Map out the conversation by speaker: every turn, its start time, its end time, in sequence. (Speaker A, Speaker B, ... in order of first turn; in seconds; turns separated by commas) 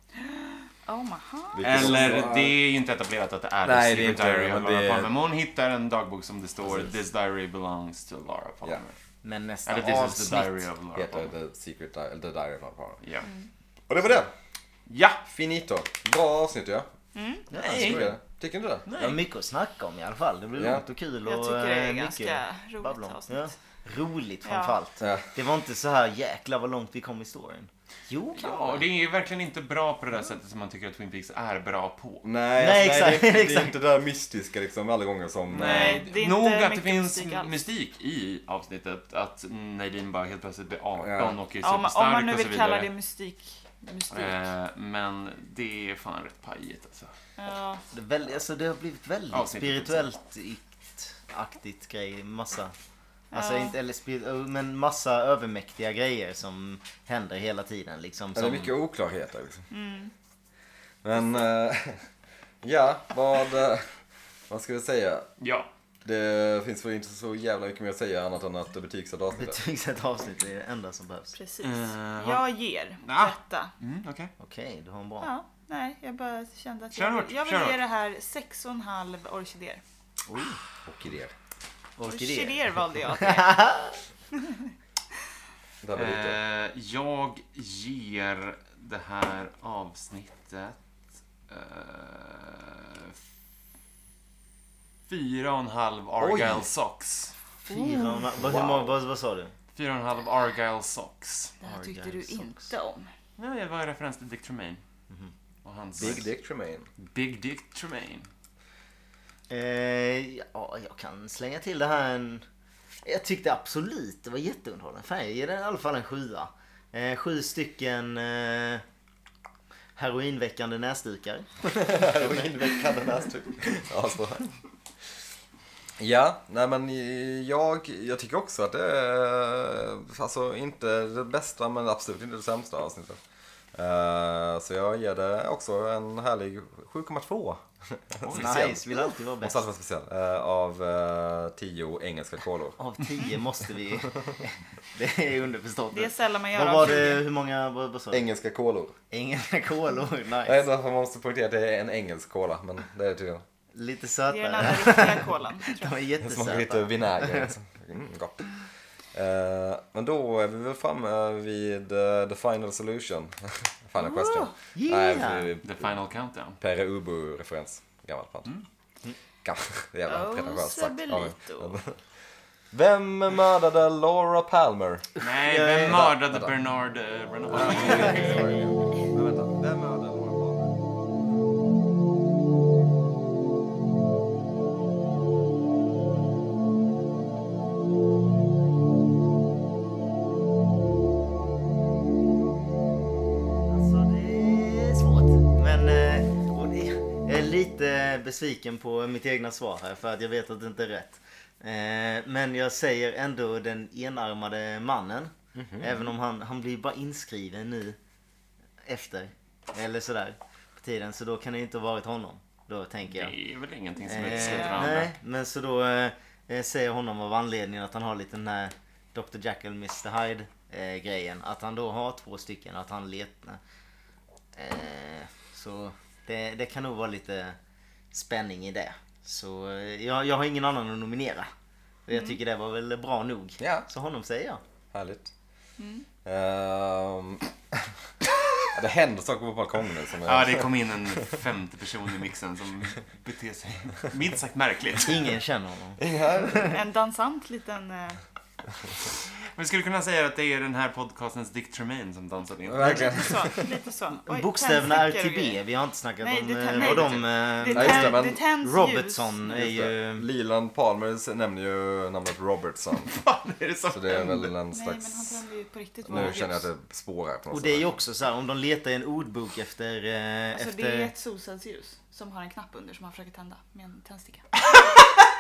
Speaker A: 0.2-1.9, Speaker B: 1.5-2.6, Speaker C: 1.6-8.9, Speaker B: 3.6-5.1, Speaker B: 6.6-6.9, Speaker D: 9.2-10.7, Speaker C: 9.7-11.3, Speaker B: 11.0-13.0, Speaker C: 13.0-13.3, Speaker B: 13.9-14.3, Speaker C: 14.9-15.2, Speaker B: 15.3-16.9, Speaker A: 17.1-17.5, Speaker D: 17.5-18.1, Speaker C: 17.5-18.1, Speaker B: 17.5-18.9, Speaker C: 18.9-19.2, Speaker D: 19.0-28.9, Speaker B: 20.6-20.8, Speaker A: 21.2-23.5, Speaker A: 24.4-24.8, Speaker B: 25.0-25.3, Speaker C: 28.4-32.2, Speaker B: 32.2-36.0, Speaker D: 32.6-33.8, Speaker C: 35.5-42.9, Speaker A: 35.6-37.5, Speaker B: 41.0-41.4, Speaker A: 41.6-44.4, Speaker C: 44.1-47.1, Speaker A: 47.4-47.8, Speaker D: 47.9-52.7, Speaker C: 49.3-50.1, Speaker A: 53.3-53.8, Speaker D: 53.3-58.7, Speaker B: 58.4-59.7, Speaker A: 59.7-60.1, Speaker B: 61.0-62.0, Speaker B: 62.6-63.9, Speaker B: 64.5-65.3, Speaker C: 65.4-65.7, Speaker B: 66.0-69.6, Speaker D: 69.4-71.4, Speaker A: 71.3-73.7, Speaker C: 71.6-72.4, Speaker C: 73.0-74.3, Speaker D: 74.4-75.3, Speaker A: 75.2-79.8, Speaker C: 76.9-77.8, Speaker D: 80.3-80.6, Speaker B: 80.8-81.3, Speaker D: 82.0-84.0, Speaker A: 82.1-83.6, Speaker A: 84.3-84.7, Speaker B: 85.8-86.4, Speaker C: 86.0-90.8, Speaker C: 91.5-93.2, Speaker C: 95.1-97.3, Speaker B: 96.2-96.7, Speaker D: 97.7-99.5, Speaker A: 97.7-98.3, Speaker B: 98.4-99.0, Speaker C: 99.7-101.5, Speaker A: 101.6-103.1, Speaker D: 101.6-102.7, Speaker C: 103.4-104.8, Speaker C: 105.7-106.3, Speaker B: 106.0-106.9, Speaker C: 107.0-108.3, Speaker D: 109.5-112.4, Speaker D: 113.0-118.8, Speaker D: 120.0-122.5, Speaker B: 121.7-124.5, Speaker B: 126.0-133.2, Speaker B: 133.7-142.8, Speaker C: 138.2-138.8, Speaker D: 138.3-139.7, Speaker D: 142.8-148.3, Speaker A: 145.9-147.3, Speaker B: 148.1-148.9, Speaker D: 149.1-150.6, Speaker B: 150.4-153.4, Speaker D: 153.7-157.5, Speaker A: 154.3-156.0, Speaker B: 156.2-158.5, Speaker B: 159.1-166.0, Speaker A: 164.0-164.5, Speaker D: 164.8-165.5, Speaker C: 165.6-166.6, Speaker B: 166.6-168.5, Speaker B: 169.4-172.0, Speaker A: 170.1-171.8, Speaker B: 172.7-175.1, Speaker C: 175.2-178.9, Speaker D: 175.4-176.0, Speaker B: 175.8-176.5, Speaker B: 177.5-180.7, Speaker D: 193.7-208.0, Speaker B: 205.6-205.9, Speaker D: 208.8-213.3, Speaker C: 213.1-215.1, Speaker A: 214.0-214.9, Speaker D: 214.1-223.6, Speaker D: 224.6-227.6, Speaker D: 228.1-231.5, Speaker D: 232.1-234.6, Speaker A: 232.1-232.4, Speaker B: 233.6-233.9, Speaker B: 234.9-235.3, Speaker A: 235.8-236.1, Speaker B: 236.2-237.9, Speaker B: 238.6-241.3, Speaker C: 240.2-245.2, Speaker D: 245.0-246.8, Speaker B: 246.0-246.8, Speaker A: 246.6-248.2, Speaker C: 249.5-253.7, Speaker B: 252.7-253.6, Speaker A: 252.8-255.6, Speaker D: 254.3-260.3, Speaker A: 256.2-259.3, Speaker C: 256.7-257.2, Speaker B: 257.7-258.4, Speaker B: 259.4-263.1, Speaker C: 263.0-264.5, Speaker B: 263.9-265.4, Speaker A: 264.7-266.7, Speaker B: 266.1-267.9, Speaker D: 267.5-271.1, Speaker A: 270.5-274.6